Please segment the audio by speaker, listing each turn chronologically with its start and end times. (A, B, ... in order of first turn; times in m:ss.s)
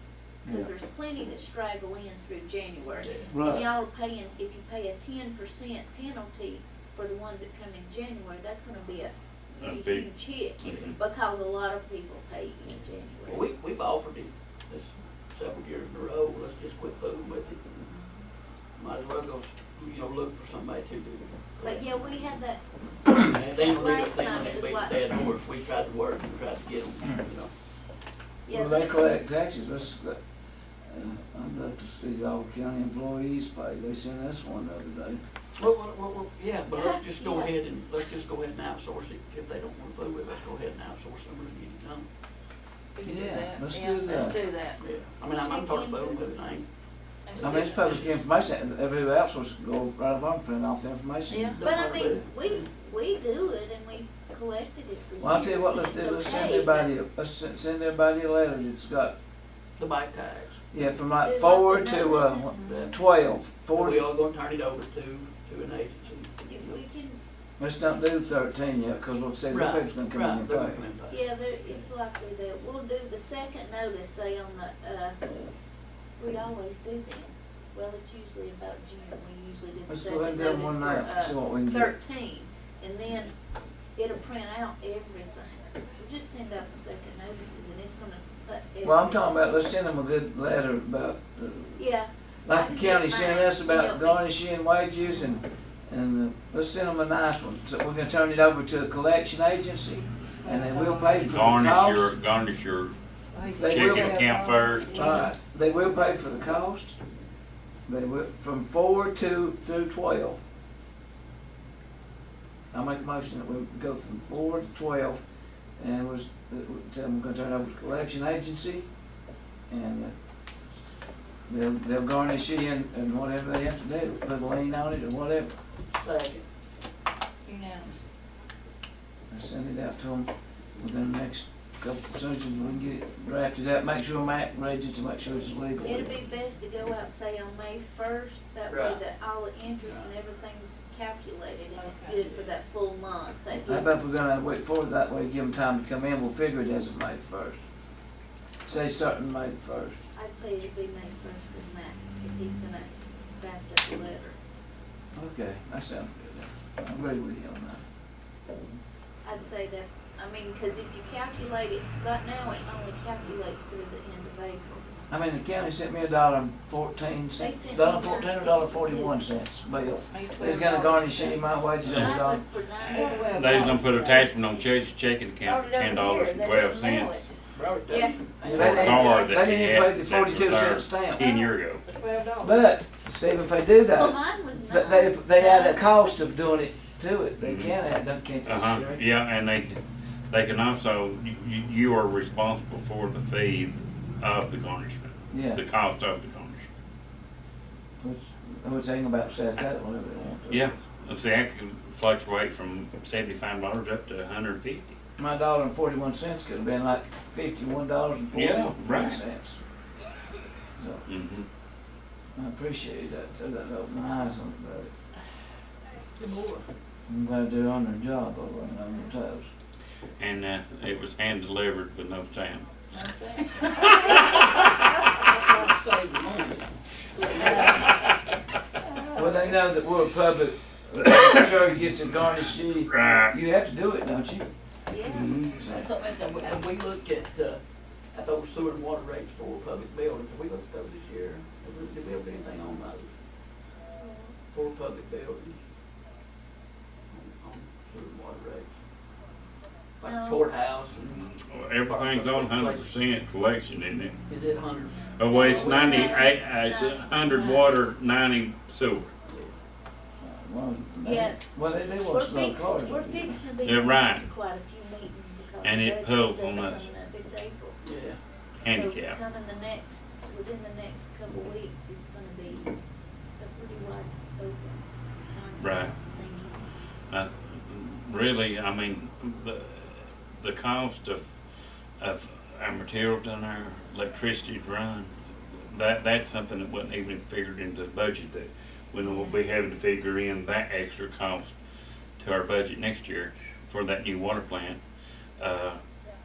0:00.4-0:00.7 A
0:00.4-0:13.5 B
0:03.0-0:03.5 C
0:03.3-0:03.7 A
0:09.6-0:11.0 D
0:13.3-0:18.0 C
0:18.8-0:21.9 C
0:21.6-0:22.6 B
0:23.0-0:27.5 C
0:23.6-0:25.3 B
0:28.5-0:29.2 B
0:28.5-0:30.2 A
0:30.8-0:35.2 A
0:35.6-0:42.1 C
0:36.7-0:37.5 B
0:43.0-0:44.8 E
0:43.0-0:44.4 A
0:44.8-0:46.7 C
0:45.3-0:46.3 B
0:47.2-0:48.2 C
0:47.3-0:47.5 E
0:47.4-0:51.6 A
0:51.3-0:51.6 E
0:51.5-0:52.7 C
0:51.6-0:56.9 B
0:55.2-0:59.1 A
0:59.8-1:00.6 C
1:00.7-1:04.1 A
1:01.2-1:03.0 B
1:02.6-1:02.9 C
1:03.7-1:06.8 C
1:06.4-1:07.2 B
1:07.6-1:10.8 A
1:09.5-1:11.8 C
1:11.1-1:15.2 B
1:16.2-1:23.4 B
1:19.9-1:21.9 A
1:23.9-1:29.3 B
1:28.8-1:31.8 A
1:31.8-1:34.2 B
1:32.4-1:42.2 A
1:40.4-1:41.4 E
1:41.3-1:43.0 D
1:43.3-1:45.3 E
1:43.6-1:47.0 A
1:43.6-1:45.0 D
1:47.9-1:50.4 A
1:52.7-1:55.2 A
1:55.8-1:58.9 A
1:59.7-2:00.2 A
2:01.5-2:05.5 A
2:05.9-2:06.4 C
2:07.4-2:07.9 B
2:09.3-2:16.1 A
2:15.8-2:23.9 B
2:18.7-2:19.0 C
2:19.8-2:20.1 C
2:21.7-2:22.4 E
2:23.7-2:27.6 A
2:28.6-2:30.0 A
2:30.1-2:34.4 B
2:35.1-2:37.8 A
2:39.2-2:45.0 B
2:45.1-2:52.5 A
2:47.4-2:49.2 B
2:50.0-2:51.5 E
2:51.8-2:57.3 D
2:51.9-2:54.7 B
2:52.9-2:53.7 E
2:55.4-2:57.3 E
2:57.5-2:59.2 C
2:57.9-2:58.2 B
2:58.4-3:01.8 D
2:58.4-3:01.2 A
2:58.9-2:59.2 B
3:01.8-3:02.6 E
3:02.4-3:09.0 A
3:03.9-3:05.8 B
3:07.4-3:07.7 D
3:08.4-3:16.7 D
3:15.3-3:15.6 A
3:18.0-3:20.8 A
3:20.5-3:25.0 D
3:25.2-3:29.6 A
3:28.3-3:29.2 D
3:30.8-3:31.0 A
3:31.1-3:31.5 D
3:32.3-3:35.1 A
3:36.2-3:36.7 C
3:37.1-3:39.5 A
3:40.2-3:42.7 D
3:42.9-3:43.4 C
3:45.2-3:47.9 C
3:47.3-3:47.8 E
3:47.7-3:48.1 D
3:49.0-3:49.6 E
3:49.1-3:54.5 A
3:52.9-3:53.3 D
3:54.9-3:55.3 B
3:55.1-3:55.6 D
3:55.4-3:55.9 A
3:55.7-3:57.6 C
3:58.1-4:03.1 C
4:03.9-4:04.3 B
4:04.5-4:05.6 C
4:07.1-4:08.7 C
4:10.0-4:12.9 C
4:10.0-4:10.5 B
4:11.3-4:14.2 D
4:14.3-4:16.0 C
4:15.2-4:19.1 D
4:15.2-4:17.8 B
4:19.2-4:19.5 C
4:20.2-4:23.4 A
4:21.0-4:27.8 B
4:23.6-4:24.3 D
4:25.6-4:26.9 D
4:27.8-4:28.2 C
4:28.6-4:29.2 D
4:28.6-4:32.7 B
4:33.4-4:36.6 B
4:35.6-4:35.9 D
4:37.1-4:41.3 D
4:42.0-4:51.6 D
4:52.2-4:54.8 D
4:55.4-4:55.8 D